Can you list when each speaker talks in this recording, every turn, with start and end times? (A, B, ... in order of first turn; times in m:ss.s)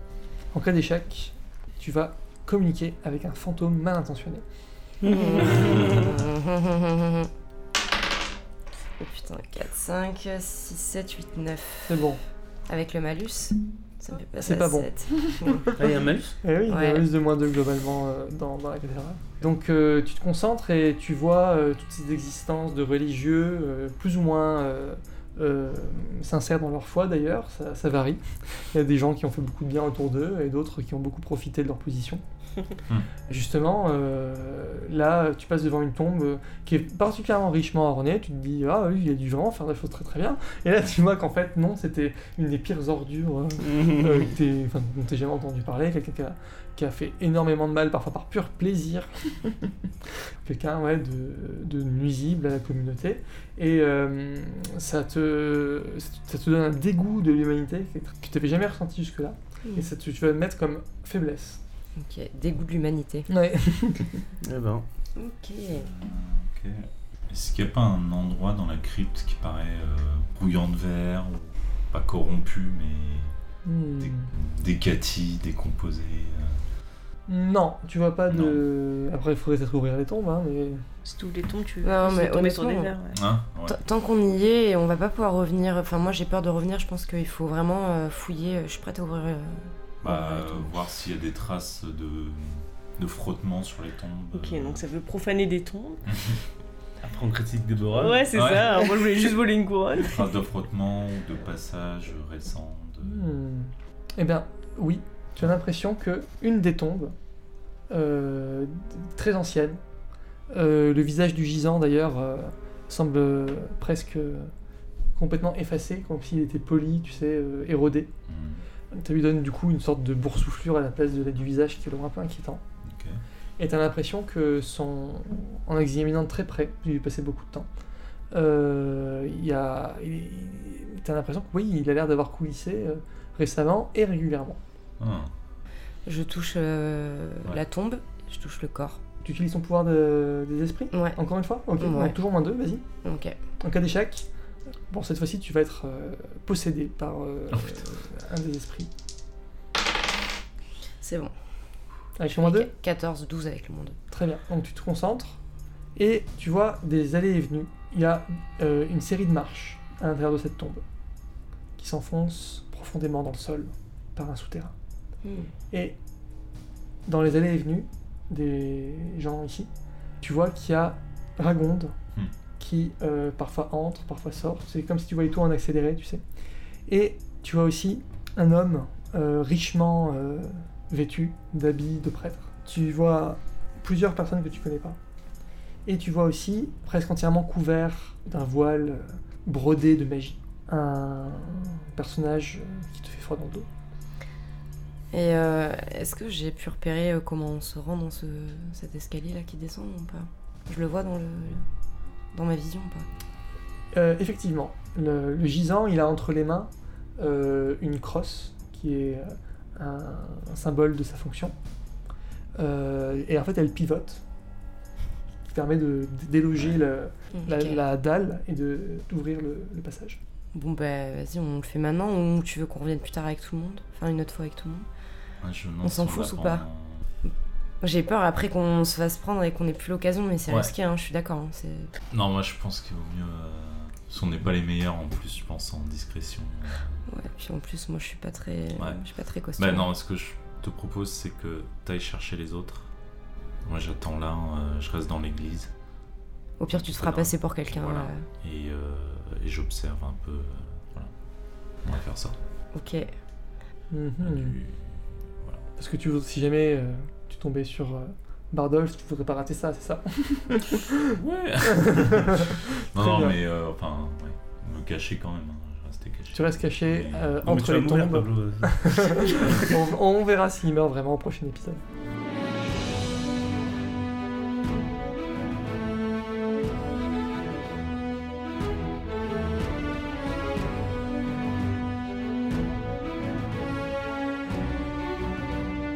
0:00.5-0:04.4 A
0:05.0-0:07.3 B
0:09.0-0:12.0 B
0:11.9-0:12.2 A
0:12.7-0:15.7 B
0:14.4-0:15.7 A
0:15.8-0:16.4 C
0:16.4-0:28.2 A
0:16.7-0:17.0 B
0:28.7-0:32.2 A
0:33.3-0:49.7 A
0:43.7-0:44.2 C
0:50.4-1:01.6 A
1:02.0-1:03.3 B
1:03.3-1:04.2 A
1:04.4-1:04.8 C
1:05.2-1:05.9 B
1:05.7-1:13.3 D
1:13.6-1:14.3 A
1:14.0-1:16.6 D
1:17.3-1:20.8 A
1:18.3-1:18.6 D
1:21.0-1:23.2 E
1:21.8-1:22.9 B
1:23.1-1:23.8 D
1:23.6-1:30.7 B
1:30.0-1:34.8 D
1:34.3-1:36.0 E
1:36.1-1:36.4 D
1:37.0-1:38.8 C
1:38.0-1:40.3 E
1:38.4-1:38.7 D
1:39.9-1:43.3 D
1:43.0-1:47.1 A
1:47.9-1:49.8 A
1:50.5-1:54.5 A
1:55.2-1:58.1 A
1:58.3-1:58.6 D
1:58.9-2:02.6 A
2:02.8-2:03.2 D
2:03.6-2:07.7 A
2:08.3-2:14.6 A
2:15.0-2:15.3 D
2:16.0-2:19.0 B
2:19.2-2:22.8 A
2:20.9-2:21.2 B
2:21.8-2:22.2 B
2:23.0-2:23.4 B
2:23.6-2:24.3 A
2:24.9-2:28.9 A
2:31.0-2:31.3 B
2:32.2-2:32.7 A
2:32.3-2:34.0 B
2:34.1-2:35.4 A
2:36.0-2:40.8 A
2:41.8-2:44.7 A
2:45.2-2:45.5 B
2:47.1-2:49.7 A
2:50.2-2:51.9 A
2:52.6-2:56.2 A
2:56.9-3:05.0 A
3:05.8-3:13.7 A
3:15.1-3:21.6 B
3:22.3-3:23.1 B
3:23.9-3:31.5 A
3:32.6-3:34.2 A
3:35.5-3:40.2 A
3:36.5-3:36.8 D
3:37.4-3:37.8 B
3:40.5-3:44.8 B
3:45.4-3:47.0 D
3:45.8-3:46.6 B
3:47.8-3:51.9 B
3:52.1-3:57.0 D
3:57.1-3:59.9 B
3:58.7-3:59.0 D
3:59.6-4:02.9 D
4:03.6-4:05.7 D
4:06.6-4:08.2 B
4:06.7-4:11.1 D
4:11.8-4:12.4 D
4:12.7-4:13.1 B
4:13.9-4:14.6 A
4:14.2-4:15.6 D
4:15.8-4:23.4 A
4:21.1-4:27.4 D
4:26.3-4:31.8 A
4:27.4-4:29.7 C